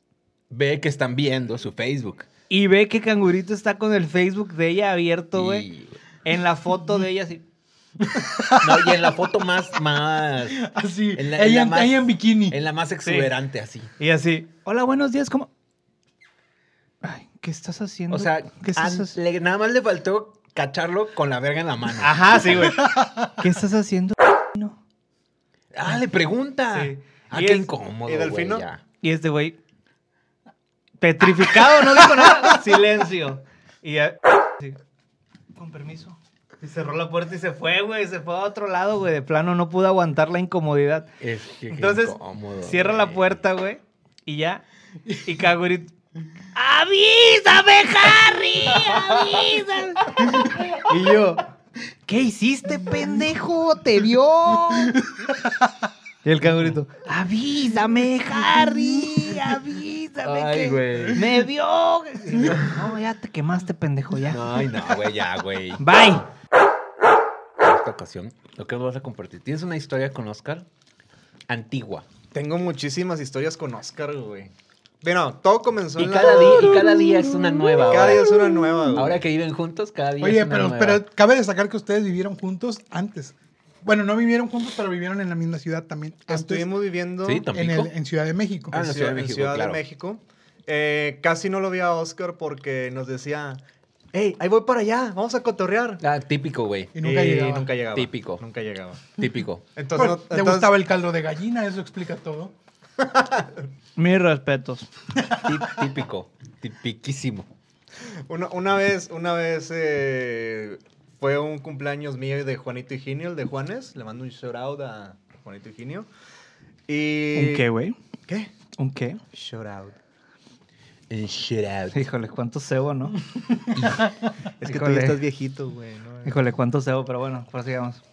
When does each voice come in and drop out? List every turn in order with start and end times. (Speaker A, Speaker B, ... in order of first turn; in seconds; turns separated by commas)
Speaker A: 0.5-2.3, Speaker B: 2.5-5.7, Speaker A: 5.3-6.0, Speaker B: 6.2-7.4, Speaker C: 8.0-9.0, Speaker A: 8.6-13.9, Speaker C: 10.5-12.6, Speaker B: 13.0-13.3, Speaker B: 14.0-15.5, Speaker B: 17.0-19.1, Speaker A: 18.1-22.8, Speaker B: 22.0-24.8, Speaker C: 22.9-23.1, Speaker A: 25.7-28.8, Speaker B: 26.7-27.7, Speaker D: 28.1-28.6, Speaker B: 29.0-29.6, Speaker B: 31.0-34.8, Speaker B: 35.6-41.1, Speaker A: 41.2-43.4, Speaker B: 41.7-44.6, Speaker B: 45.2-45.9, Speaker B: 46.5-51.4, Speaker B: 52.1-55.0, Speaker C: 54.9-55.7, Speaker B: 56.2-64.4, Speaker A: 60.2-61.3, Speaker A: 64.3-65.8, Speaker B: 65.8-66.3, Speaker A: 67.6-70.7, Speaker A: 71.5-72.1, Speaker D: 72.3-77.1, Speaker A: 76.0-81.0, Speaker D: 77.8-79.2, Speaker C: 80.2-86.7, Speaker D: 86.3-87.5, Speaker A: 87.2-87.9, Speaker C: 87.5-88.8, Speaker A: 88.7-89.8, Speaker D: 88.8-93.6, Speaker D: 94.1-96.0, Speaker A: 96.0-96.9, Speaker C: 96.9-97.7, Speaker D: 97.0-99.1, Speaker A: 97.9-98.4, Speaker A: 99.2-99.6, Speaker D: 99.8-100.7, Speaker C: 100.0-102.5, Speaker D: 103.0-103.5, Speaker B: 104.0-104.9, Speaker A: 105.4-107.5, Speaker D: 108.3-116.1, Speaker D: 116.9-117.6, Speaker B: 117.3-118.0, Speaker B: 118.8-119.2, Speaker D: 119.3-120.0, Speaker A: 121.1-122.0, Speaker B: 121.9-123.2, Speaker C: 123.2-124.1, Speaker A: 123.7-124.0, Speaker D: 124.6-126.4, Speaker B: 124.6-125.2, Speaker B: 126.2-128.0